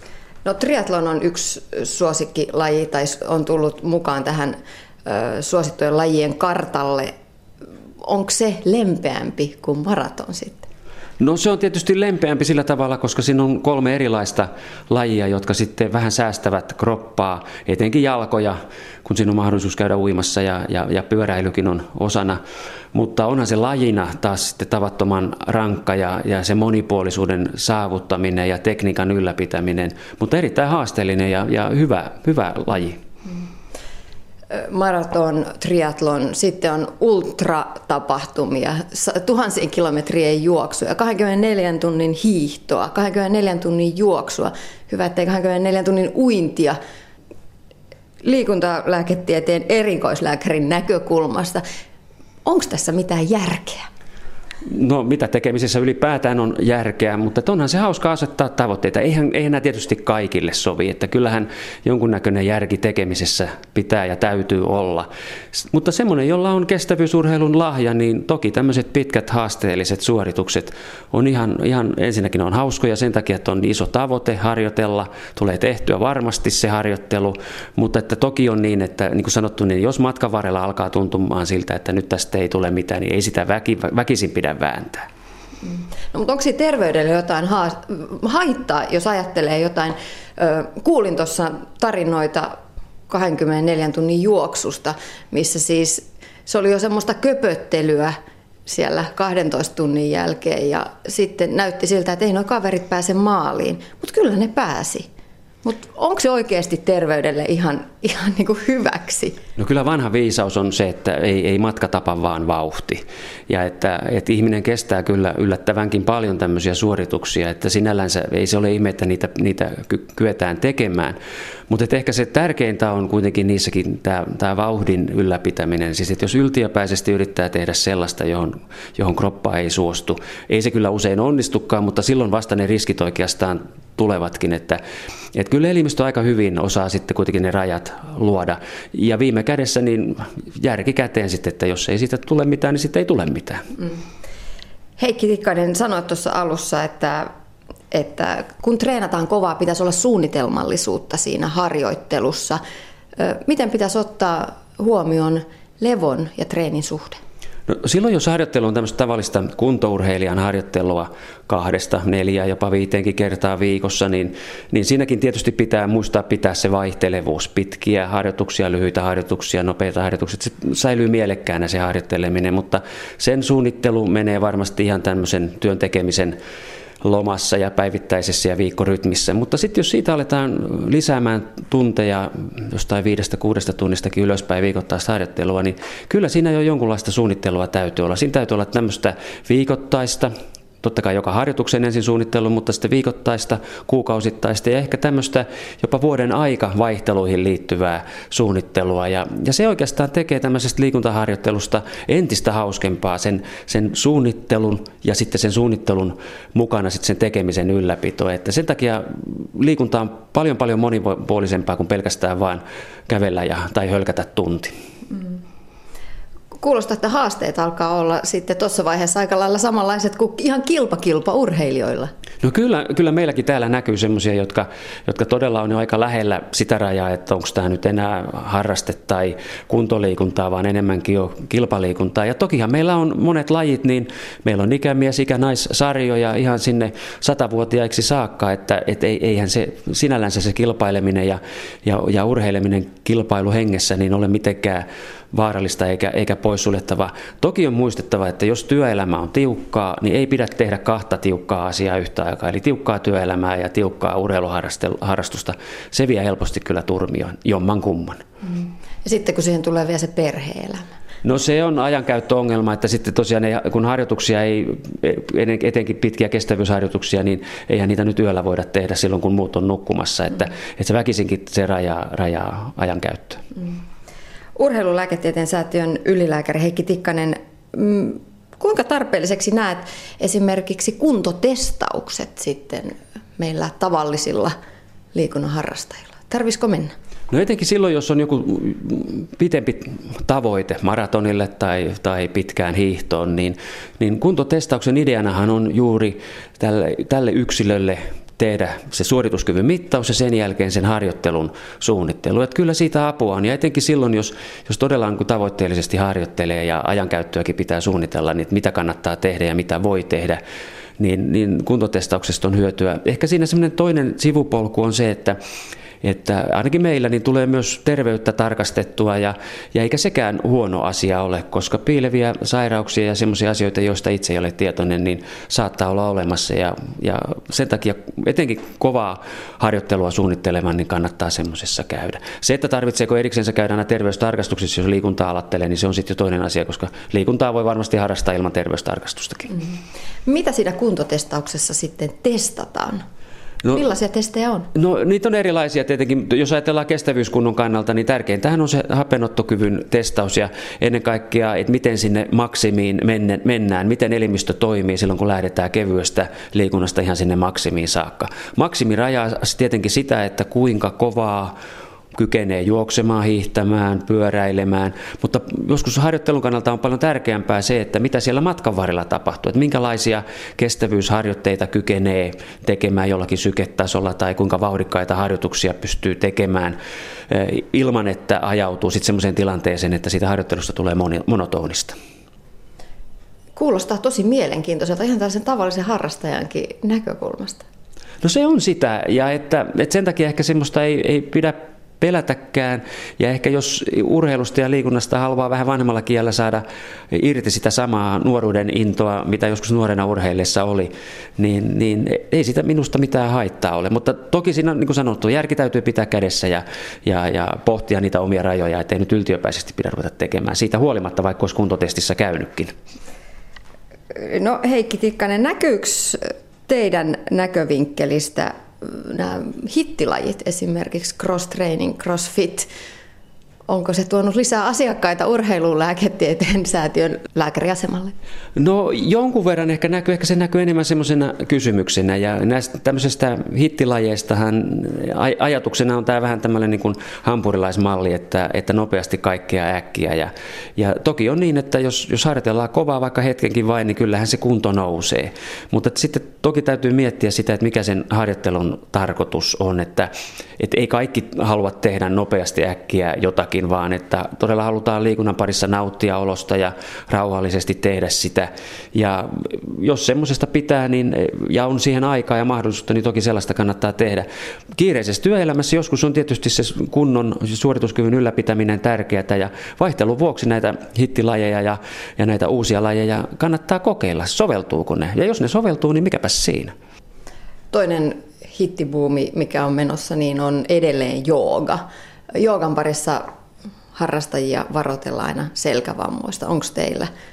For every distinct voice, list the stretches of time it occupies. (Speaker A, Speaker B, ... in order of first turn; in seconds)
Speaker A: 0.4-7.1, 8.0-10.7, 34.5-46.8, 48.2-51.6, 52.4-53.9, 85.6-105.1, 105.6-109.4, 145.0-147.3, 147.9-152.6, 153.2-157.2, 215.1-215.4, 216.6-222.1, 258.4-260.9, 274.6-284.6, 285.1-286.9, 340.2-343.0, 343.7-344.7, 383.6-387.6, 414.1-422.7, 423.7-428.1, 477.7-483.3, 483.9-487.1
Speaker B: 11.2-22.4, 22.9-33.0, 54.6-85.0, 109.6-121.2, 121.7-134.8, 135.3-143.7, 157.7-176.4, 177.0-190.3, 190.8-214.7, 222.4-258.2, 261.2-273.4, 287.3-310.4, 311.0-315.4, 316.0-339.6, 344.7-361.6, 362.1-376.8, 377.3-381.9, 388.2-412.7, 428.6-476.7